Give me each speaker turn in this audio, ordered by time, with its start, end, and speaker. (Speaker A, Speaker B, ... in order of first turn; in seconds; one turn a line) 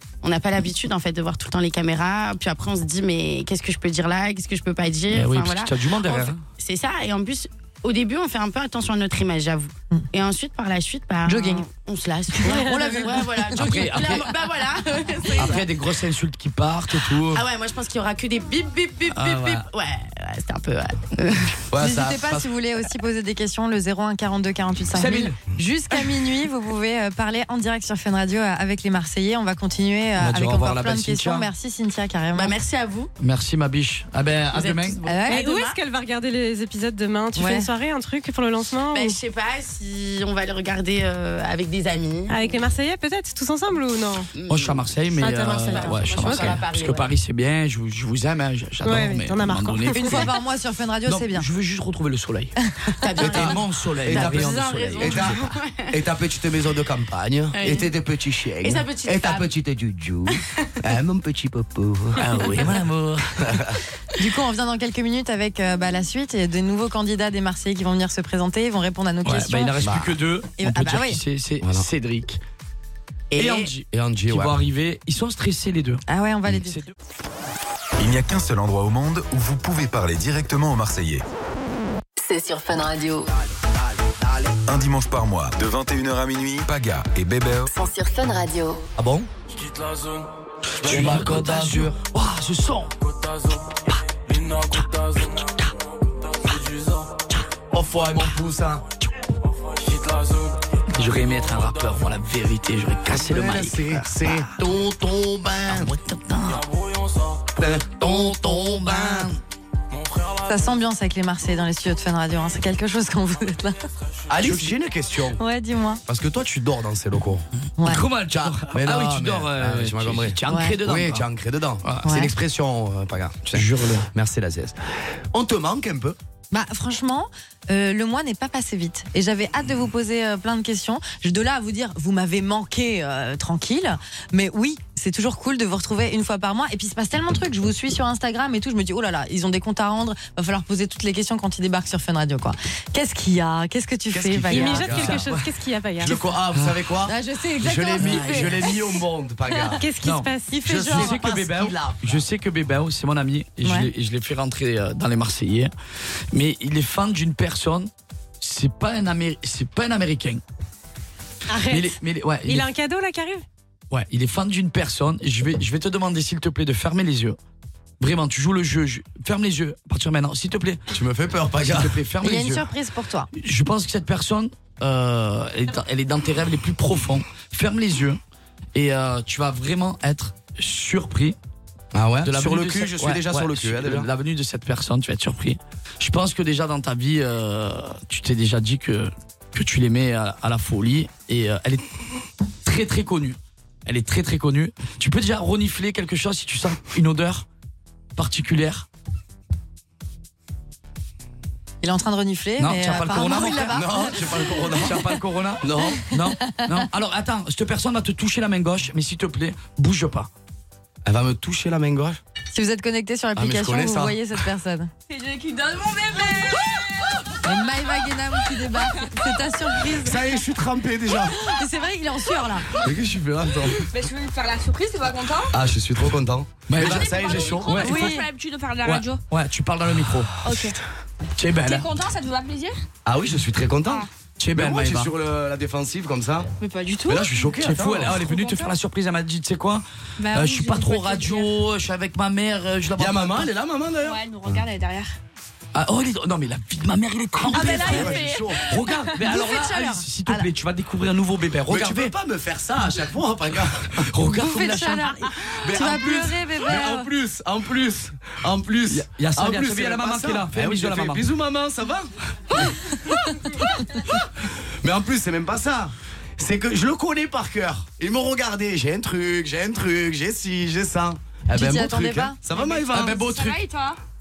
Speaker A: 0.2-15.7
Speaker B: 5.1-6.4
Speaker C: 11.2-11.6
Speaker C: 12.6-13.1
Speaker B: 13.5-14.3
Speaker B: 15.3-17.4
Speaker A: 17.2-21.6
Speaker B: 19.1-19.7
Speaker D: 21.7-22.5
Speaker C: 21.8-32.5
Speaker B: 24.9-25.4
Speaker B: 30.2-31.5
Speaker A: 32.3-33.1
Speaker B: 33.2-35.0
Speaker A: 34.5-35.8
Speaker C: 35.1-35.5
Speaker E: 35.2-39.2
Speaker C: 37.4-37.7
Speaker A: 38.9-42.6
Speaker E: 42.3-44.3
Speaker A: 44.3-47.1
Speaker B: 44.5-50.3
Speaker E: 45.2-46.6
Speaker E: 48.8-50.2
Speaker C: 49.9-51.5
Speaker B: 51.0-52.5
Speaker A: 53.0-56.0
Speaker B: 53.2-55.4
Speaker D: 53.2-62.5
Speaker A: 57.5-57.9
Speaker A: 58.6-59.5
Speaker B: 62.2-63.7
Speaker D: 63.4-63.7
Speaker C: 64.2-69.7
Speaker B: 69.2-72.4
Speaker D: 69.8-70.1
Speaker C: 70.6-71.2
Speaker D: 71.6-71.8
Speaker A: 73.3-73.7
Speaker B: 73.3-76.9
Speaker D: 73.9-74.5
Speaker C: 76.1-76.8
Speaker F: 78.0-81.2
Speaker G: 82.2-83.3
Speaker F: 84.7-87.7
Speaker G: 87.7-88.8
Speaker D: 89.0-89.3
Speaker B: 90.8-92.9
Speaker D: 90.8-92.0
Speaker D: 97.7-98.8
Speaker B: 100.9-104.7
Speaker D: 103.1-105.9
Speaker B: 105.7-106.7
Speaker D: 107.5-109.3
Speaker B: 108.0-109.4
Speaker C: 110.5-113.8
Speaker D: 114.3-115.4
Speaker B: 114.4-114.7
Speaker C: 115.4-116.0
Speaker D: 116.0-117.5
Speaker B: 117.8-121.2
Speaker D: 118.3-124.8
Speaker C: 120.5-120.8
Speaker C: 122.0-122.3
Speaker B: 123.5-124.1
Speaker D: 125.3-126.2
Speaker C: 126.5-144.9
Speaker D: 144.1-145.3
Speaker E: 144.5-146.1
Speaker B: 144.6-145.4
Speaker D: 146.0-149.8
Speaker B: 146.1-146.8
Speaker C: 147.1-148.7
Speaker B: 148.0-148.7
Speaker E: 149.7-151.2
Speaker B: 150.0-155.7
Speaker D: 150.6-152.2
Speaker C: 150.7-151.1
Speaker C: 153.6-153.9
Speaker B: 156.3-157.9
Speaker B: 158.4-160.4
Speaker E: 161.5-163.4
Speaker B: 161.7-162.7
Speaker B: 163.9-167.4
Speaker B: 168.0-170.8
Speaker D: 170.9-172.0
Speaker B: 171.7-172.7
Speaker C: 172.2-173.3
Speaker B: 173.3-178.2
Speaker B: 178.7-181.4
Speaker D: 181.9-184.1
Speaker B: 182.2-191.9
Speaker B: 192.6-197.4
Speaker B: 198.2-198.8
Speaker C: 201.8-204.9
Speaker B: 202.6-204.0
Speaker D: 203.5-205.0
Speaker B: 204.8-210.3
Speaker D: 205.6-206.0
Speaker D: 211.1-212.2
Speaker C: 212.5-214.9
Speaker D: 213.3-214.2
Speaker H: 215.1-217.2
Speaker C: 217.4-220.2
Speaker D: 219.9-221.4
Speaker C: 221.3-222.7
Speaker D: 222.7-223.8
Speaker H: 223.9-225.6
Speaker D: 225.5-227.9
Speaker B: 226.7-228.2
Speaker H: 226.8-229.2
Speaker C: 227.8-228.3
Speaker B: 228.8-230.4
Speaker H: 230.4-230.8
Speaker B: 231.4-231.9
Speaker H: 231.6-232.8
Speaker D: 233.0-236.5
Speaker B: 234.4-235.1
Speaker H: 236.6-237.4
Speaker D: 237.0-238.2
Speaker B: 237.6-243.5
Speaker H: 238.2-238.7
Speaker H: 240.2-241.5
Speaker D: 243.0-244.6
Speaker H: 244.0-245.1
Speaker B: 245.7-252.1
Speaker D: 247.5-248.6
Speaker H: 247.6-248.6
Speaker C: 249.3-250.4
Speaker D: 251.7-254.1
Speaker B: 254.0-255.2
Speaker C: 254.3-257.1
Speaker D: 255.6-262.1
Speaker B: 258.9-261.2
Speaker D: 264.8-273.5
Speaker C: 271.5-272.4
Speaker H: 272.5-274.0
Speaker B: 272.9-273.4